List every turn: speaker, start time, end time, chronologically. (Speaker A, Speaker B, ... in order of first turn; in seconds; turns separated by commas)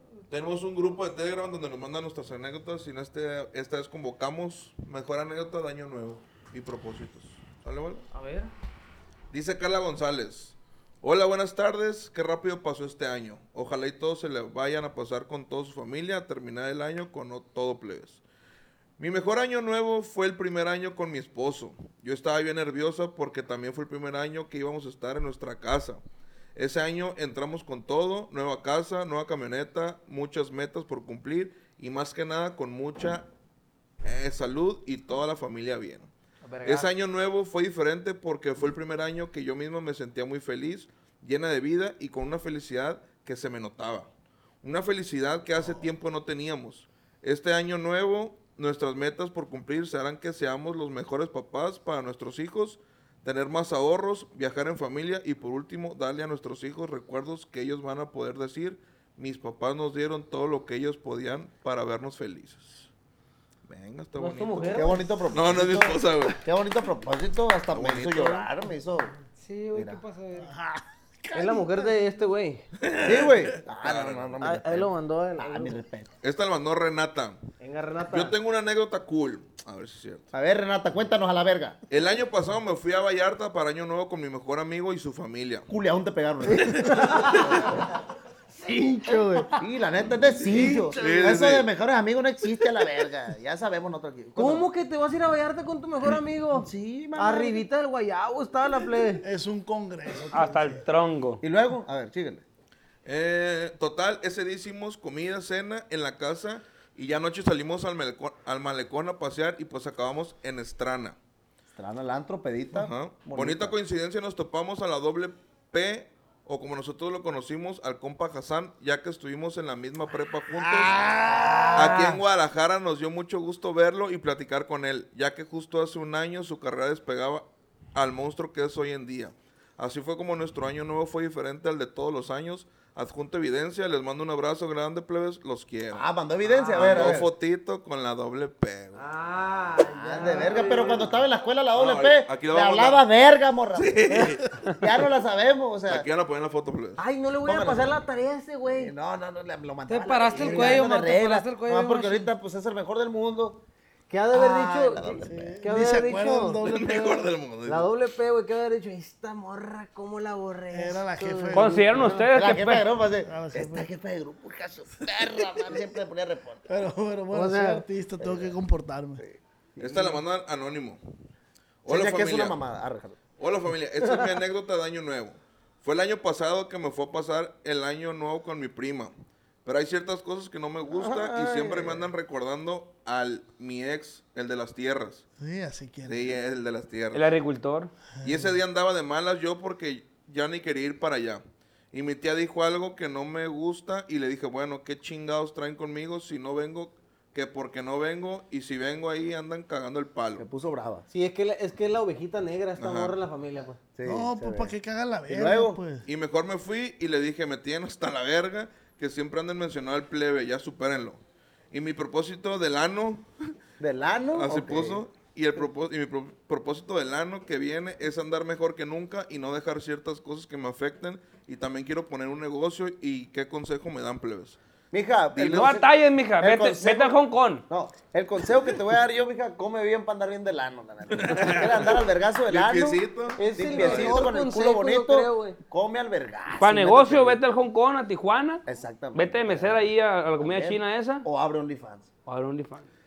Speaker A: 0.3-8.1, Speaker B: 8.1-8.5, Speaker A: 9.3-18.2, Speaker A: 19.0-26.0, Speaker A: 26.6-33.3, Speaker A: 34.0-36.1, Speaker B: 36.4-36.9, Speaker A: 36.6-44.1, Speaker A: 44.6-62.9, Speaker A: 63.7-66.4, Speaker B: 64.2-65.1, Speaker C: 64.7-69.1, Speaker A: 67.7-68.5, Speaker D: 69.4-70.5, Speaker C: 69.7-70.0, Speaker E: 70.4-71.9, Speaker B: 71.3-72.6, Speaker A: 72.8-74.4, Speaker C: 73.0-76.1, Speaker B: 74.4-75.8, Speaker A: 76.2-77.4, Speaker B: 77.6-78.4, Speaker A: 78.1-80.3, Speaker C: 80.3-81.8, Speaker A: 81.9-85.7, Speaker C: 85.7-87.4, Speaker B: 86.5-87.8, Speaker B: 88.5-89.6, Speaker C: 89.6-94.7, Speaker B: 90.5-91.2, Speaker A: 91.0-91.7, Speaker B: 94.4-99.2, Speaker C: 96.5-97.7, Speaker E: 99.2-100.8, Speaker F: 100.3-101.4, Speaker C: 101.4-102.4, Speaker A: 103.0-111.2, Speaker C: 111.7-113.7, Speaker A: 112.7-121.0, Speaker E: 120.5-122.0, Speaker A: 121.7-136.1, Speaker C: 135.9-137.3, Speaker B: 136.5-137.2, Speaker A: 136.7-139.0, Speaker B: 138.9-141.1, Speaker C: 140.0-146.1, Speaker A: 141.7-143.0, Speaker A: 143.8-144.7, Speaker A: 145.9-147.0, Speaker B: 147.0-148.9, Speaker C: 147.4-148.0, Speaker C: 148.7-153.6, Speaker D: 149.9-152.3, Speaker B: 150.3-150.8, Speaker B: 154.1-156.6, Speaker C: 154.3-155.6, Speaker E: 155.2-157.3, Speaker A: 156.6-157.9, Speaker B: 157.6-162.1, Speaker E: 160.7-162.1, Speaker F: 161.5-162.9, Speaker C: 162.1-166.7, Speaker E: 163.2-163.9, Speaker E: 166.7-169.2, Speaker B: 167.3-167.8, Speaker C: 168.2-168.6, Speaker C: 169.2-170.2, Speaker A: 169.8-171.0, Speaker A: 171.8-172.6, Speaker C: 171.9-173.2, Speaker A: 173.4-179.1, Speaker A: 179.6-185.2, Speaker C: 180.9-182.1, Speaker E: 185.4-186.4, Speaker A: 186.1-187.3, Speaker F: 187.1-187.9, Speaker E: 188.2-188.6, Speaker A: 188.2-200.4, Speaker C: 200.4-201.1, Speaker B: 201.1-203.9, Speaker A: 202.8-203.2, Speaker C: 203.9-204.7, Speaker E: 204.1-206.1, Speaker C: 205.3-205.8, Speaker A: 206.1-211.2, Speaker A: 211.7-213.3, Speaker C: 213.8-215.0, Speaker A: 214.3-224.6, Speaker C: 224.9-225.9, Speaker A: 225.4-225.7, Speaker F: 225.4-227.6, Speaker C: 226.4-227.2, Speaker C: 227.7-237.4, Speaker A: 231.1-234.3, Speaker B: 233.4-235.6, Speaker F: 236.6-238.6, Speaker C: 238.7-242.1, Speaker F: 239.1-241.3, Speaker F: 242.3-242.9